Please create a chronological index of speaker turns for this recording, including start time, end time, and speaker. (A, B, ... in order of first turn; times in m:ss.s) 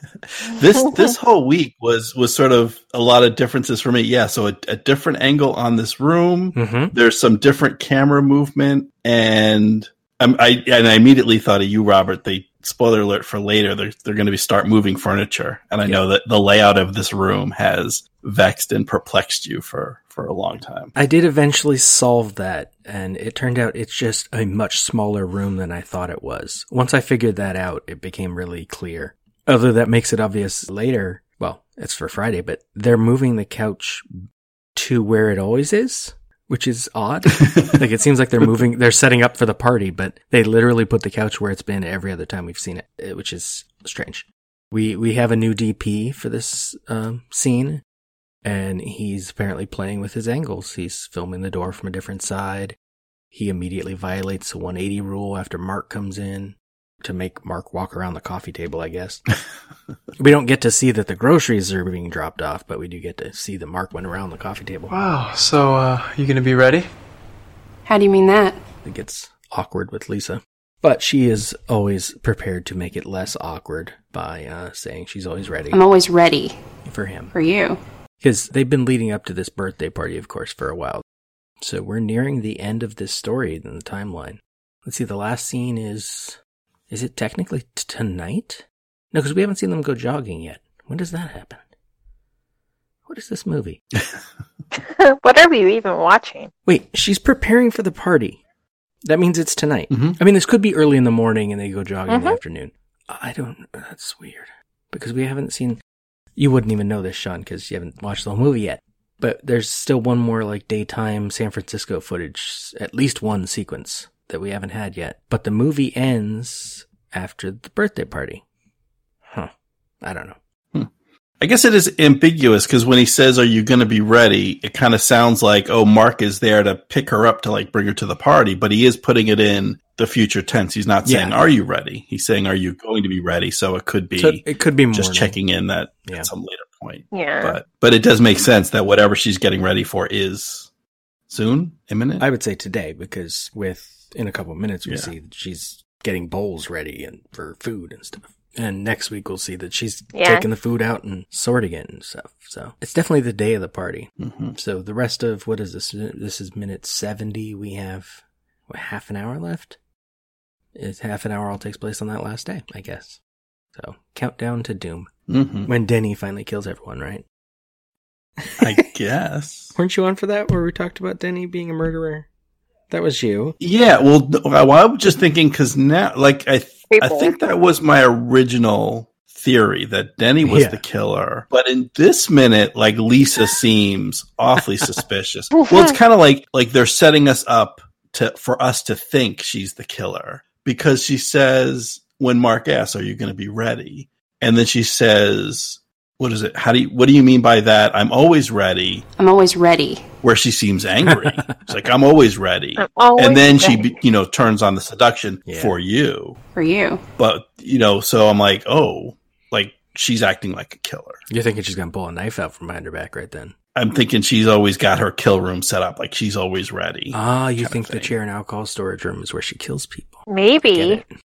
0:00.3-0:20.9 A
0:06.6-0:06.9 B
0:21.0-0:34.1 B
0:34.8-0:47.8 B
0:48.4-0:52.8 B
0:53.3-0:59.2 B
1:00.2-1:05.0 B
1:04.9-1:06.9 C
1:07.8-1:08.6 D
1:08.8-1:15.8 B
1:15.7-1:16.6 D
1:16.8-1:17.3 B
1:17.3-1:17.8 D
1:18.2-1:21.0 B
1:21.6-1:26.4 B
1:26.9-1:31.6 B
1:33.1-1:33.8 B
1:34.8-1:36.5 E
1:36.7-1:38.4 B
1:39.0-1:45.8 B
1:39.9-1:40.2 A
1:42.1-1:42.4 E
1:46.4-1:58.4 B
2:00.0-2:00.4 B
2:01.4-2:20.7 A
2:11.0-2:11.4 B
2:14.2-2:15.4 B
2:17.1-2:17.6 E
2:21.3-2:22.2 A
2:22.2-2:39.8 B
2:24.9-2:25.1 A
2:30.2-2:30.4 E
2:34.2-2:34.6 A
2:40.8-2:43.2 B
2:43.8-2:45.1 B
2:45.3-2:45.7 A
2:45.6-2:47.2 B
2:48.6-2:49.8 A
2:49.8-2:52.3 B
2:52.9-2:53.6 B
2:53.6-3:19.0 A
2:56.9-2:57.4 E
3:00.4-3:00.8 B
3:19.2-3:20.1 D
3:20.2-3:26.4 A
3:21.1-3:21.8 B
3:22.8-3:24.0 E
3:25.5-3:25.8 B
3:26.6-3:27.0 D
3:27.2-3:31.2 A
3:31.3-3:33.5 B
3:33.8-3:38.2 A
3:37.1-3:41.1 B
3:40.3-3:41.0 E